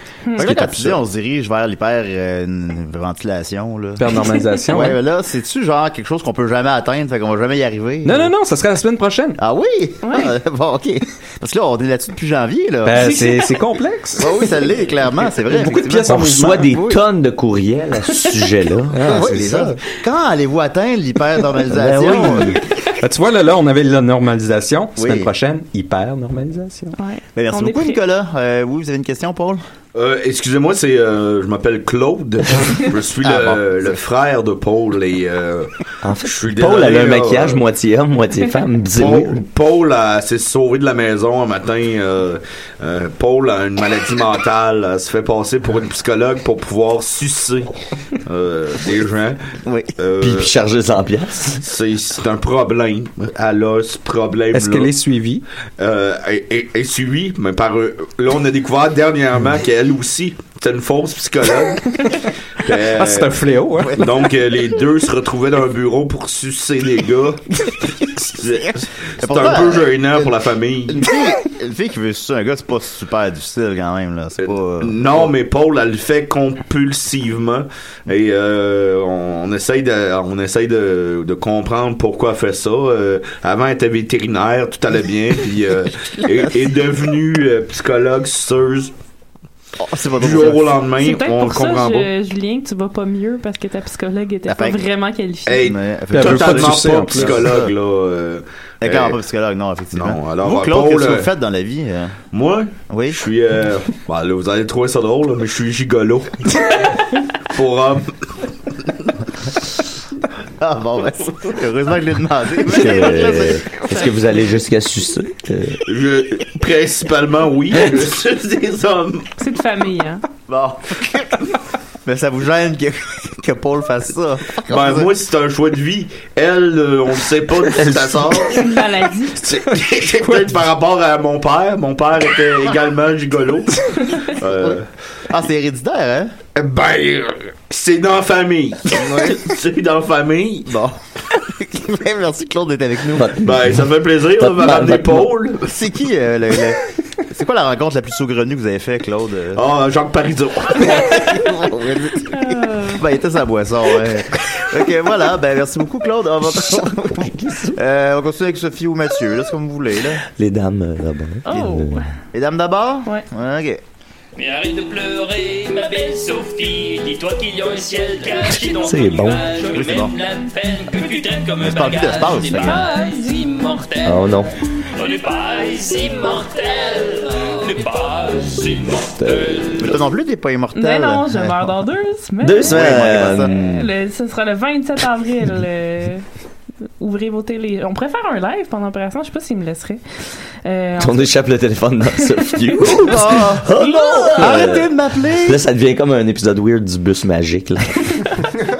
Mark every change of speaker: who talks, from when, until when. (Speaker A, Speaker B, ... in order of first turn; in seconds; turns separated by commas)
Speaker A: 0.4-1.0, Speaker B: 0.4-4.1, Speaker A: 4.0-5.0, Speaker C: 4.1-4.7, Speaker B: 4.7-8.3, Speaker A: 8.1-9.4, Speaker B: 9.4-13.1, Speaker C: 10.0-10.3, Speaker A: 12.8-14.4, Speaker C: 12.9-13.5, Speaker B: 14.2-17.0, Speaker A: 15.5-16.7, Speaker D: 16.1-19.3, Speaker A: 18.9-19.8, Speaker B: 19.1-22.6, Speaker D: 21.7-22.6, Speaker A: 23.0-26.9, Speaker B: 25.0-25.3, Speaker C: 27.0-28.0, Speaker B: 27.4-29.6, Speaker E: 29.9-35.7, Speaker B: 33.2-33.6, Speaker D: 36.0-39.5, Speaker E: 36.2-37.6, Speaker E: 39.0-47.7, Speaker E: 48.2-49.4, Speaker B: 49.6-49.9, Speaker E: 50.0-50.5, Speaker D: 50.2-51.6, Speaker E: 51.6-54.9, Speaker A: 54.5-55.5, Speaker E: 55.8-71.1, Speaker A: 62.9-64.0, Speaker B: 69.2-70.3, Speaker B: 70.9-75.3, Speaker E: 74.4-88.9, Speaker B: 89.8-90.8, Speaker E: 90.1-92.1, Speaker C: 91.0-95.7, Speaker B: 94.5-94.9, Speaker E: 95.5-99.2, Speaker B: 95.6-97.7, Speaker A: 96.1-97.6, Speaker B: 98.8-102.2, Speaker E: 99.9-101.3, Speaker E: 102.3-106.8, Speaker B: 102.9-103.2, Speaker E: 107.5-109.0, Speaker B: 110.6-114.2, Speaker D: 112.7-115.8, Speaker E: 115.9-119.3, Speaker C: 119.4-120.2, Speaker B: 120.5-121.5, Speaker B: 122.0-125.1, Speaker E: 124.6-128.7, Speaker C: 128.5-129.5, Speaker E: 129.4-134.9, Speaker A: 130.2-130.6, Speaker B: 134.6-136.3, Speaker E: 136.6-140.7, Speaker B: 139.0-139.4, Speaker B: 140.7-143.4, Speaker D: 143.1-145.3, Speaker E: 143.4-145.7, Speaker B: 145.7-149.7, Speaker E: 149.5-151.3, Speaker B: 151.1-160.2, Speaker C: 152.3-153.0, Speaker D: 156.7-157.8, Speaker D: 160.3-162.1, Speaker C: 161.5-162.1, Speaker B: 162.3-163.8, Speaker F: 164.4-172.7, Speaker D: 168.8-169.5, Speaker B: 169.7-170.1, Speaker B: 171.6-172.9, Speaker C: 172.5-174.1, Speaker F: 173.8-174.1, Speaker D: 174.1-174.5, Speaker F: 175.0-179.9, Speaker D: 179.2-179.8, Speaker B: 179.8-181.7, Speaker C: 180.8-186.2, Speaker D: 182.4-183.9, Speaker B: 182.7-183.6, Speaker C: 187.0-191.4, Speaker D: 191.0-198.4, Speaker C: 192.5-193.4, Speaker B: 193.0-195.6